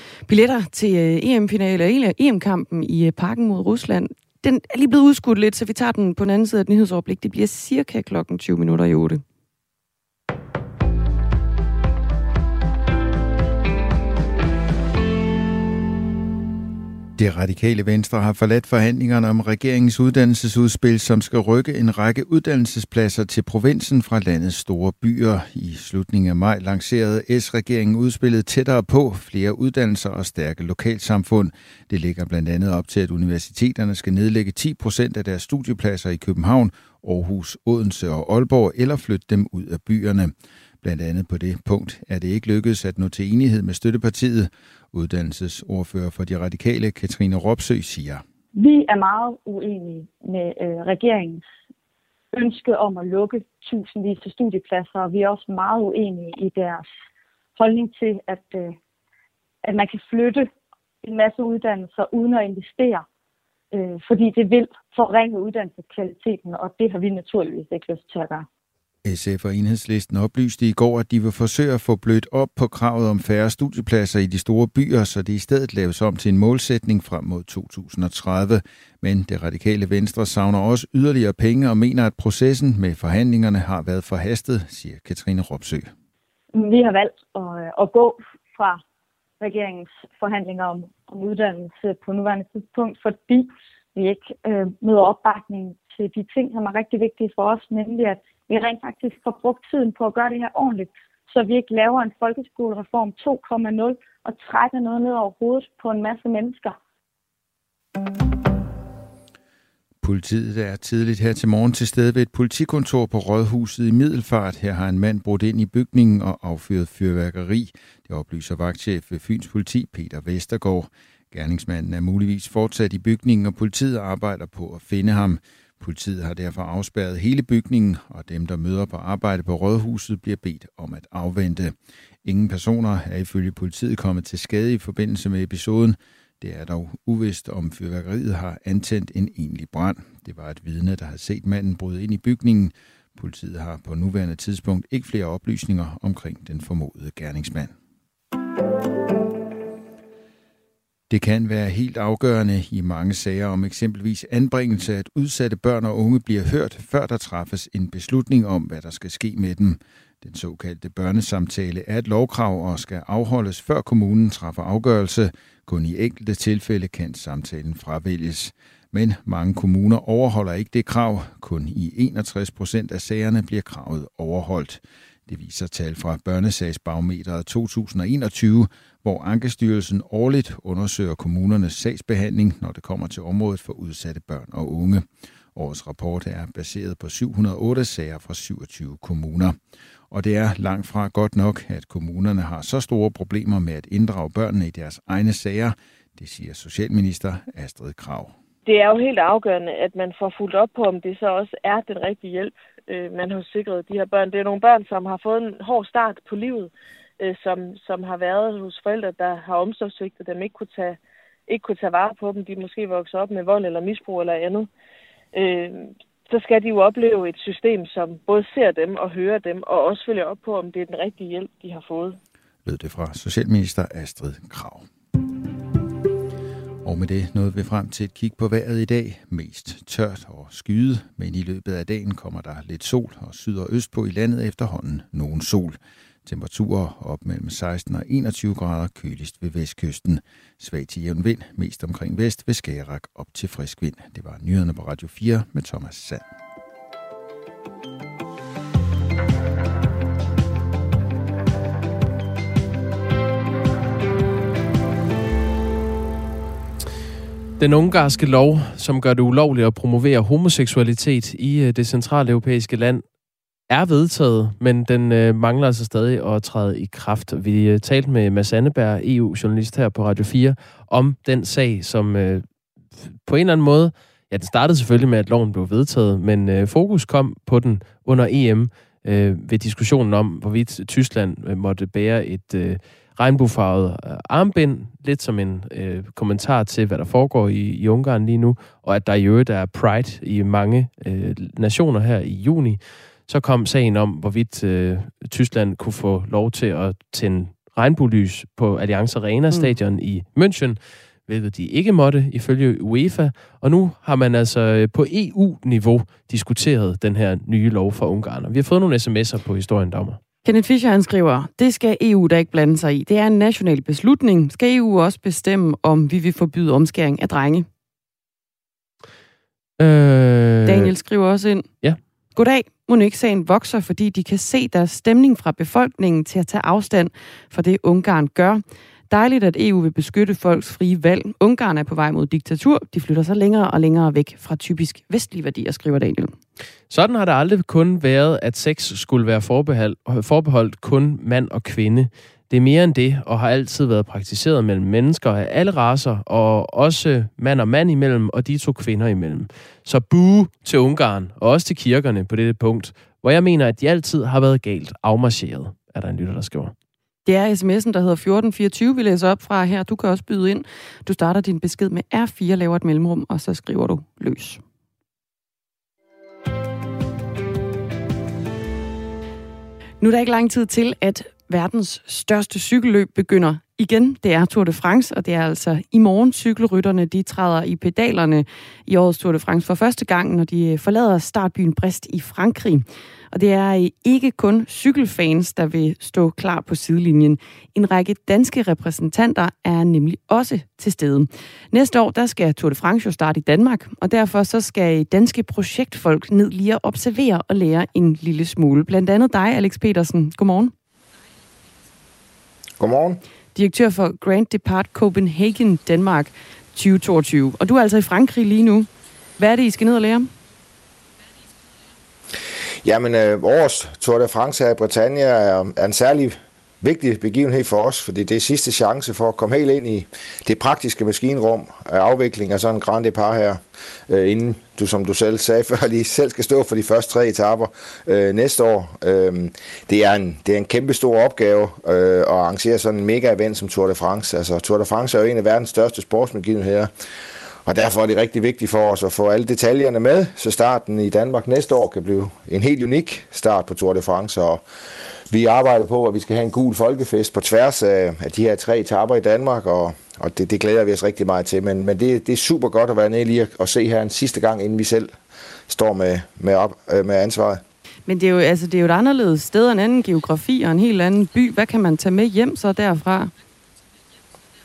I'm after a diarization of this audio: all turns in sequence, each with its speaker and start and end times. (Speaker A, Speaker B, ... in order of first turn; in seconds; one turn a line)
Speaker A: 0.2-9.2
Speaker B: 17.2-48.2
Speaker C: 48.5-51.4
Speaker C: 52.3-56.9
Speaker C: 57.6-58.8
Speaker C: 59.6-60.5
Speaker C: 61.0-63.0
Speaker C: 63.7-68.5
Speaker B: 69.0-85.9
Speaker C: 86.5-88.8
Speaker C: 89.4-106.8
Speaker B: 110.0-147.7
Speaker B: 151.1-189.6
Speaker B: 190.1-198.3
Speaker D: 198.6-214.7
Speaker D: 215.3-222.2
Speaker B: 222.6-224.8
Speaker B: 226.8-246.3
Speaker E: 257.6-263.0
Speaker E: 263.7-272.4
Speaker E: 273.0-310.2
Speaker A: 310.4-317.7
Speaker E: 319.8-320.9
Speaker A: 320.6-321.7
Speaker A: 322.3-336.3
Speaker E: 336.9-356.7
Speaker A: 357.2-364.6
Speaker A: 370.0-400.7
Speaker F: 402.8-403.2
Speaker A: 403.5-410.3
Speaker F: 412.8-436.9
Speaker F: 437.6-444.6
Speaker F: 445.3-455.1
Speaker F: 455.7-457.6
Speaker A: 458.1-463.3